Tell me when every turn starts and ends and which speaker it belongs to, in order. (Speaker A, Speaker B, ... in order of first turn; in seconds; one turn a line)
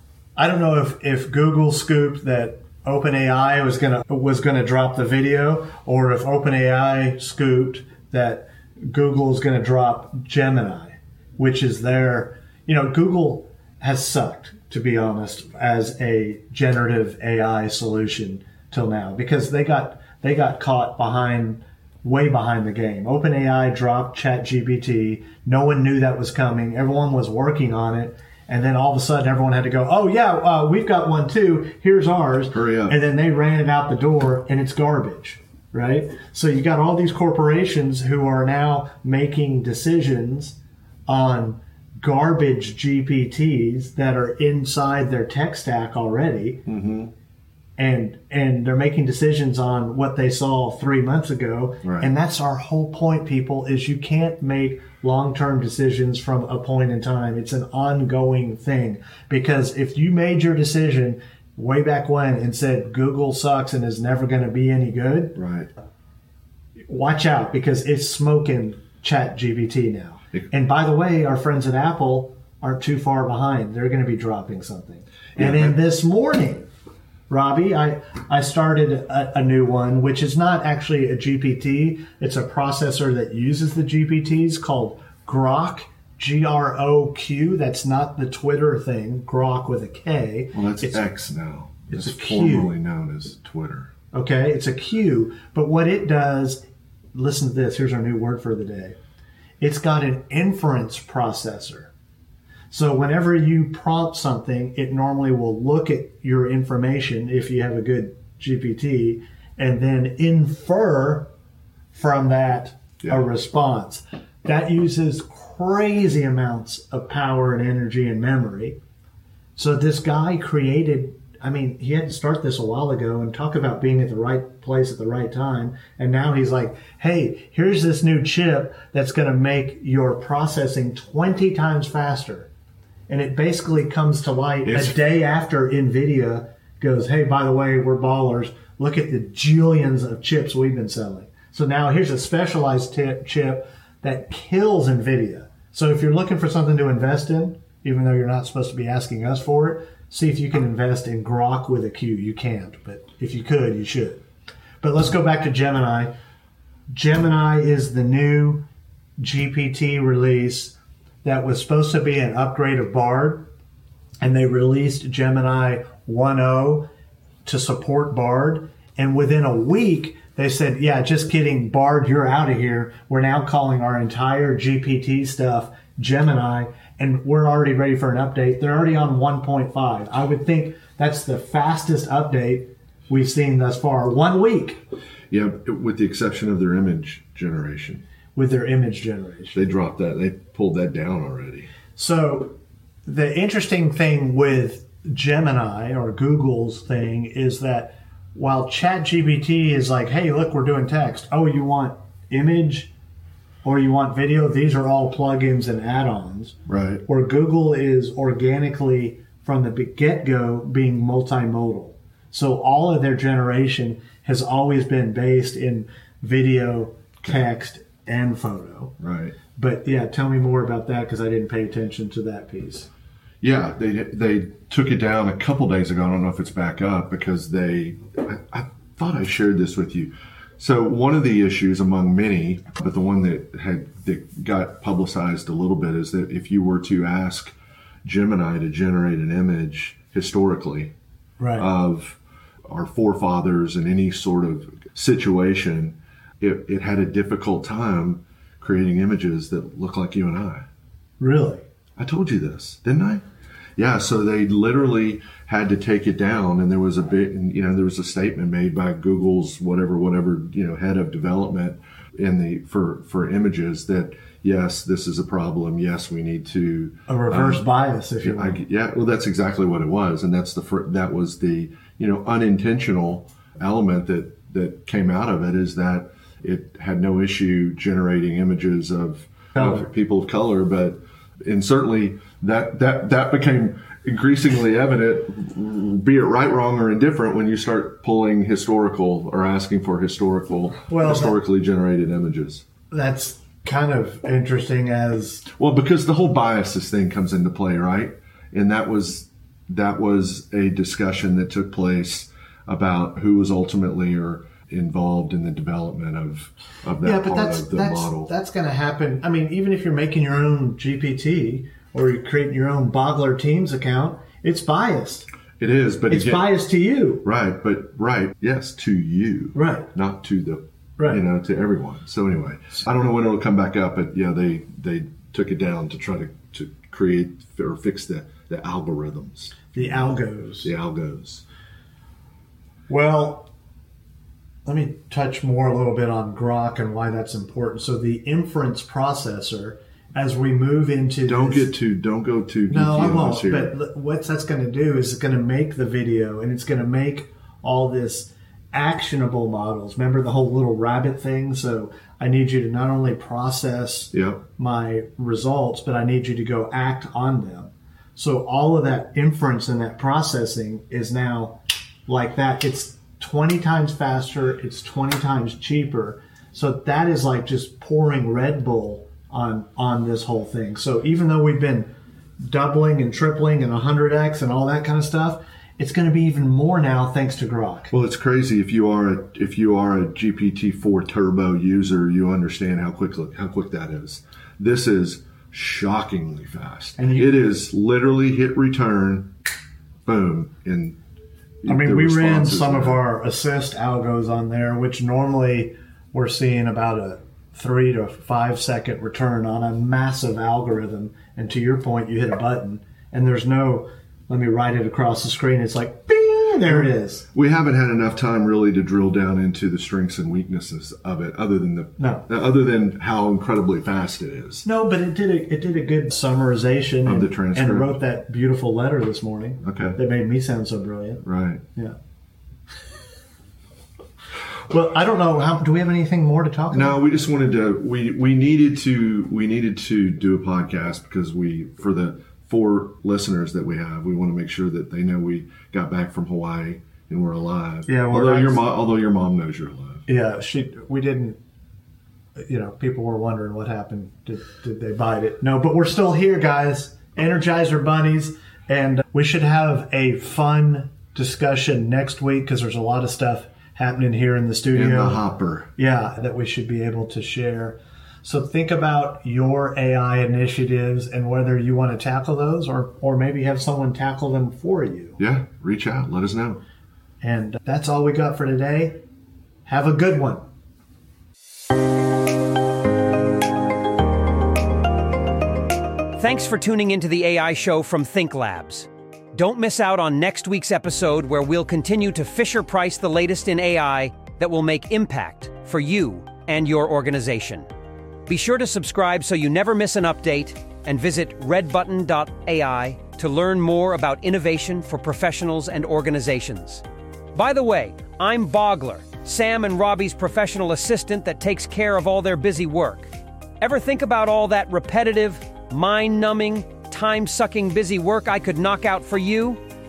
Speaker A: 0.3-46.6
Speaker B: 32.5-33.0
Speaker B: 46.6-47.1
Speaker A: 47.8-65.4
Speaker B: 51.8-52.1
Speaker B: 65.3-65.7
Speaker A: 66.9-76.7
Speaker B: 75.3-75.8
Speaker A: 77.3-91.0
Speaker B: 90.5-93.9
Speaker A: 91.9-92.7
Speaker A: 94.1-99.0
Speaker A: 99.6-101.9
Speaker A: 102.7-111.3
Speaker A: 111.9-118.8
Speaker A: 119.5-132.5
Speaker A: 133.1-154.2
Speaker B: 134.7-134.9
Speaker A: 154.8-156.1
Speaker A: 156.9-158.7
Speaker A: 159.2-163.5
Speaker A: 164.2-166.9
Speaker A: 167.4-184.8
Speaker B: 185.3-188.0
Speaker A: 188.3-189.6
Speaker B: 189.5-191.7
Speaker A: 191.9-202.9
Speaker A: 203.6-206.5
Speaker B: 206.7-207.0
Speaker A: 207.1-218.9
Speaker B: 219.0-219.4
Speaker A: 219.5-222.9
Speaker B: 223.4-240.9
Speaker A: 241.4-241.7
Speaker B: 241.6-250.7
Speaker A: 251.2-251.6
Speaker B: 252.0-253.2
Speaker B: 253.8-267.6
Speaker A: 267.1-268.6
Speaker B: 268.2-292.6
Speaker A: 290.9-291.4
Speaker A: 292.9-295.4
Speaker B: 295.5-308.3
Speaker A: 307.0-315.3
Speaker B: 315.6-316.6
Speaker A: 316.1-317.2
Speaker B: 317.2-329.9
Speaker A: 319.5-319.9
Speaker A: 329.7-330.7
Speaker B: 330.6-331.4
Speaker A: 332.9-333.5
Speaker A: 334.6-341.7
Speaker B: 341.2-343.7
Speaker A: 342.7-371.9
Speaker B: 354.1-354.4
Speaker A: 372.4-377.9
Speaker B: 377.9-389.3
Speaker A: 387.0-387.4
Speaker B: 390.1-391.0
Speaker B: 391.6-393.0
Speaker A: 391.7-407.3
Speaker B: 407.3-414.6
Speaker A: 412.0-412.2
Speaker A: 414.6-421.2
Speaker B: 417.0-418.0
Speaker B: 419.6-420.0
Speaker B: 421.2-421.6
Speaker A: 424.7-427.0
Speaker B: 426.7-440.1
Speaker A: 437.9-438.6
Speaker A: 440.1-441.4
Speaker A: 442.4-455.2
Speaker B: 454.7-455.7
Speaker A: 455.8-465.2
Speaker B: 465.2-466.6
Speaker A: 467.2-469.0
Speaker A: 469.6-470.4
Speaker C: 476.2-487.7
Speaker C: 488.3-496.8
Speaker C: 497.3-509.6